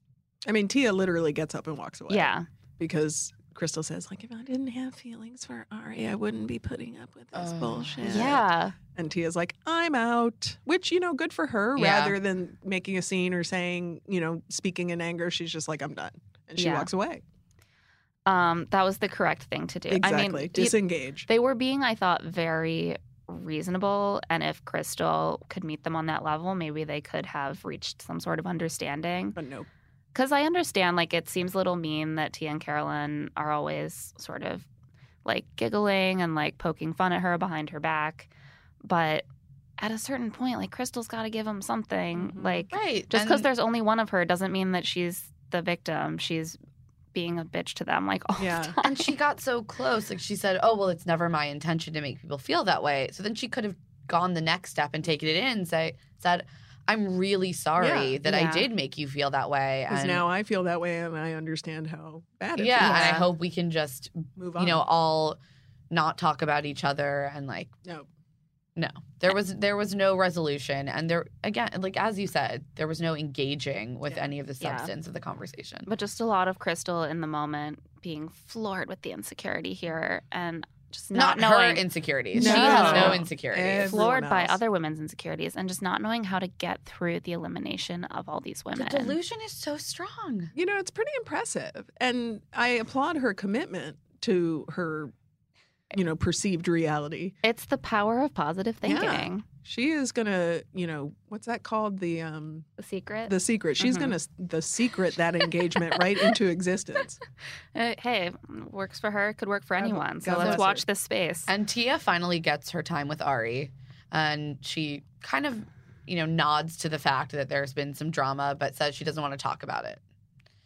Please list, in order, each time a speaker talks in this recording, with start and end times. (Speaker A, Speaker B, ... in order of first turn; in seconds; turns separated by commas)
Speaker A: 0.5-17.2, Speaker B: 2.1-2.5, Speaker C: 7.3-8.4, Speaker B: 8.0-8.8, Speaker C: 11.8-12.2, Speaker B: 16.6-16.9, Speaker B: 18.3-20.8, Speaker A: 19.9-21.3, Speaker B: 21.3-29.4, Speaker A: 29.4-29.7, Speaker B: 30.1-34.7, Speaker B: 35.2-38.3, Speaker B: 38.8-39.3, Speaker B: 39.8-46.6, Speaker A: 42.2-42.7, Speaker C: 42.7-43.5, Speaker B: 47.1-49.1, Speaker A: 48.4-48.8, Speaker C: 48.8-60.2, Speaker A: 57.8-58.2, Speaker B: 58.2-58.7, Speaker A: 59.9-63.2, Speaker C: 62.6-65.4, Speaker B: 62.8-63.2, Speaker A: 64.4-64.8, Speaker C: 65.9-67.7, Speaker C: 68.8-75.9, Speaker B: 74.6-74.9, Speaker B: 75.9-81.8, Speaker C: 81.1-84.1, Speaker B: 82.4-83.2, Speaker A: 82.4-84.6, Speaker B: 83.9-89.2, Speaker C: 88.7-90.5, Speaker A: 90.5-95.1, Speaker A: 95.9-97.4, Speaker B: 97.4-99.5, Speaker A: 98.8-102.7, Speaker B: 102.8-104.2, Speaker A: 103.3-107.2, Speaker B: 107.8-111.5, Speaker A: 109.8-110.8, Speaker C: 111.5-120.0